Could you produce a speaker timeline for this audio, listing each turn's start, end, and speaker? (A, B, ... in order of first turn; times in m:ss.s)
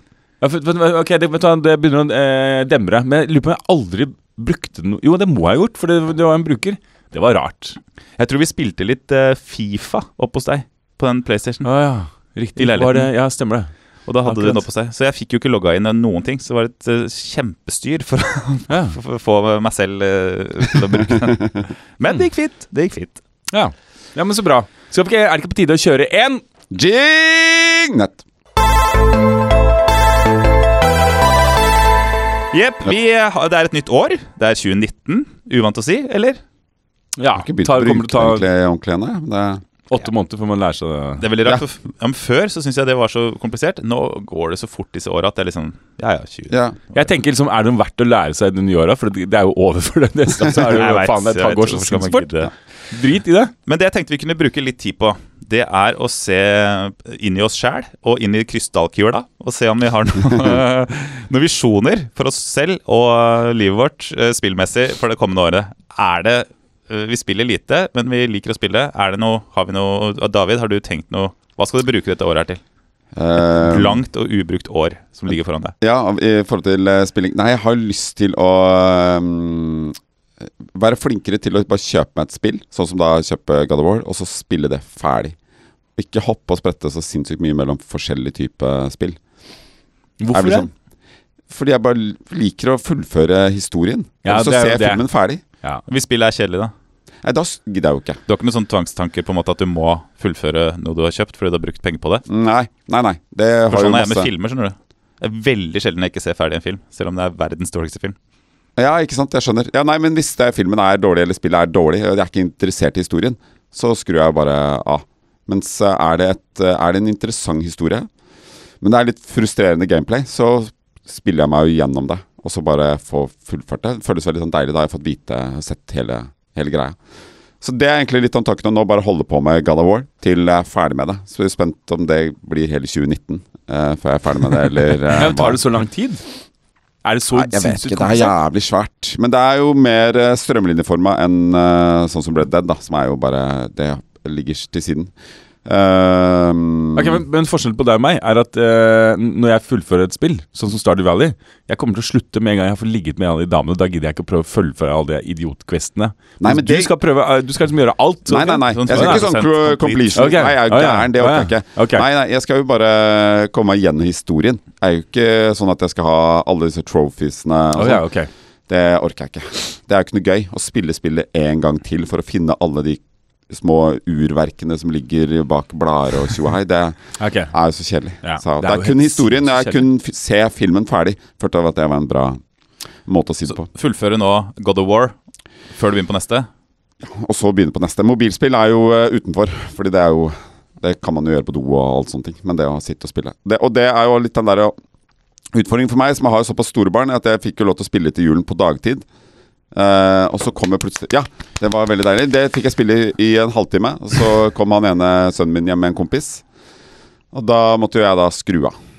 0:00.4-0:07.8 A
0:08.2-0:11.6 B
0:11.6-0:13.7 A
0:12.6-0:13.1 B
0:14.1-0:23.2 B
0:14.2-0:14.6 A
0:18.7-0:19.0 A
0:23.5-0:26.4 A
0:26.7-0:28.2 C
0:32.5-0:36.4 B
0:37.2-0:38.4 A
0:37.4-0:39.6 C
0:39.9-0:41.2 A
0:41.2-0:46.6 B
0:46.5-0:46.8 C
0:46.9-0:52.3 A
0:50.5-0:52.5 B
0:52.9-0:53.5 A
0:53.6-1:12.6 B
1:13.2-1:14.0 C
1:13.4-1:15.7 B
1:15.8-1:19.9 C
1:20.6-1:25.4 C
1:26.0-1:29.2 C
1:30.2-1:30.6 A
1:30.3-1:30.7 C
1:31.5-1:35.4 C
1:34.2-1:35.0 A
1:35.9-1:36.7 B
1:37.2-1:38.2 C
1:38.3-1:42.2 B
1:42.3-1:44.3 C
1:43.7-1:48.2 B
1:48.8-1:58.1 C
1:58.8-2:07.0 C
2:07.6-2:15.6 C
2:15.1-2:16.2 A
2:17.0-2:18.3 A
2:17.3-2:25.1 C
2:25.6-2:27.2 C
2:26.9-2:39.3 A
2:36.4-2:36.9 C
2:38.3-2:48.0 C
2:38.7-2:40.3 B
2:40.1-2:42.0 A
2:47.7-2:48.3 A
2:48.7-2:57.0 C
2:57.2-2:57.5 A
2:57.5-3:02.4 C
2:58.2-2:59.9 A
3:03.0-3:03.7 C
3:03.5-3:05.1 B
3:05.8-3:06.5 B
3:07.0-3:14.7 C
3:15.5-3:19.0 C
3:19.7-3:26.4 C
3:27.3-3:28.7 C